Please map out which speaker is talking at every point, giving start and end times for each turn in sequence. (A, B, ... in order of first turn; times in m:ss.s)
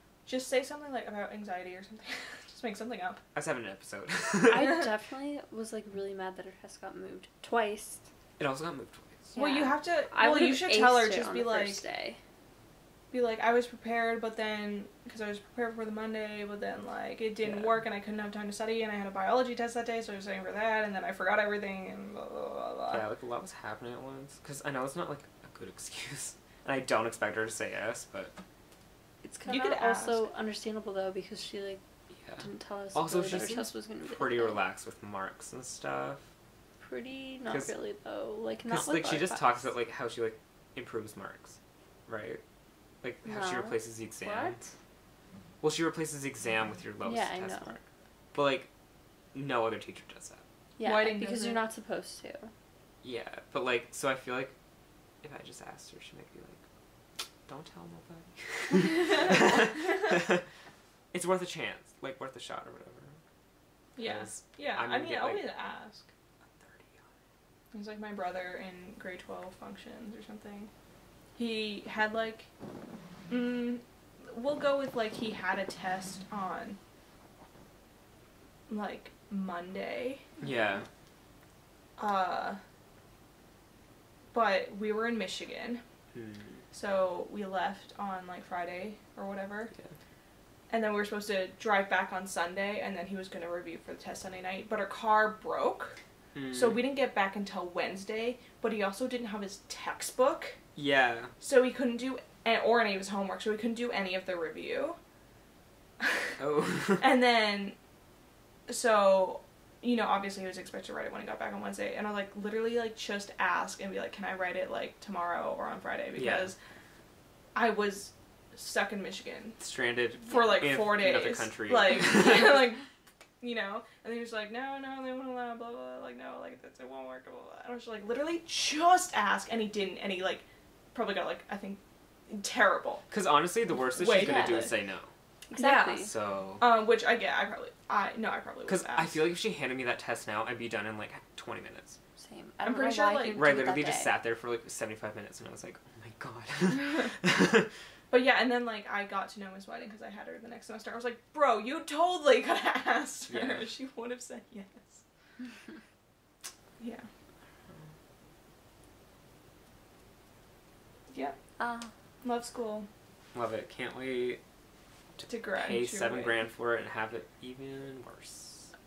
0:00.3-0:03.2 A
0:03.3-0:04.8 B
0:04.5-0:08.0 C
0:08.4-0:09.3 B
0:09.3-0:12.2 C
0:09.4-0:11.8 A
0:13.1-0:23.0 A
0:17.4-0:17.8 B
0:22.9-0:28.4 B
0:29.2-0:31.8 C
0:29.5-0:30.3 A
0:32.2-0:36.3 B
0:32.4-0:34.6 C
0:36.8-0:39.5 C
0:38.7-0:42.4 B
0:43.0-0:44.6 B
0:43.2-0:44.7 C
0:45.6-0:48.7 B
0:47.0-0:47.8 C
0:49.3-0:50.4 B
0:50.8-0:52.5 C
0:50.8-0:51.6 A
0:53.0-0:54.6 B
0:55.2-0:56.6 B
0:57.5-1:00.4 B
0:59.1-0:59.9 A
1:01.1-1:03.2 B
1:04.0-1:06.1 A
1:04.0-1:05.5 B
1:06.6-1:07.1 B
1:07.7-1:10.7 A
1:11.4-1:12.5 A
1:13.3-1:16.8 A
1:18.7-1:20.4 A
1:20.4-1:20.9 B
1:22.0-1:22.6 A
1:24.3-1:25.8 A
1:26.1-1:26.6 B
1:26.7-1:29.7 A
1:30.7-1:36.0 A
1:36.3-1:36.8 B
1:36.5-1:40.6 A
1:40.8-1:41.3 B
1:41.4-1:45.0 A
1:46.0-1:46.3 A
1:46.4-1:47.1 B
1:47.0-1:47.8 A
1:48.7-1:56.6 A
1:56.2-1:56.5 B
1:57.6-1:59.6 A
1:59.6-2:02.7 B
2:00.3-2:02.8 A
2:03.4-2:13.1 A
2:13.1-2:15.1 B
2:13.9-2:14.7 A
2:14.1-2:14.7 C
2:15.5-2:16.1 C
2:15.5-2:19.2 A
2:16.0-2:16.6 B
2:18.7-2:22.0 B
2:22.2-2:24.1 C
2:22.6-2:23.4 A
2:23.3-2:27.7 B
2:26.8-2:27.1 A
2:28.1-2:35.0 A
2:33.3-2:33.7 B
2:36.8-2:37.1 A
2:41.1-2:41.4 A
2:41.6-2:41.9 C
2:42.2-2:42.9 A
2:43.3-2:44.4 B
2:45.2-2:48.7 B
2:45.3-2:46.4 A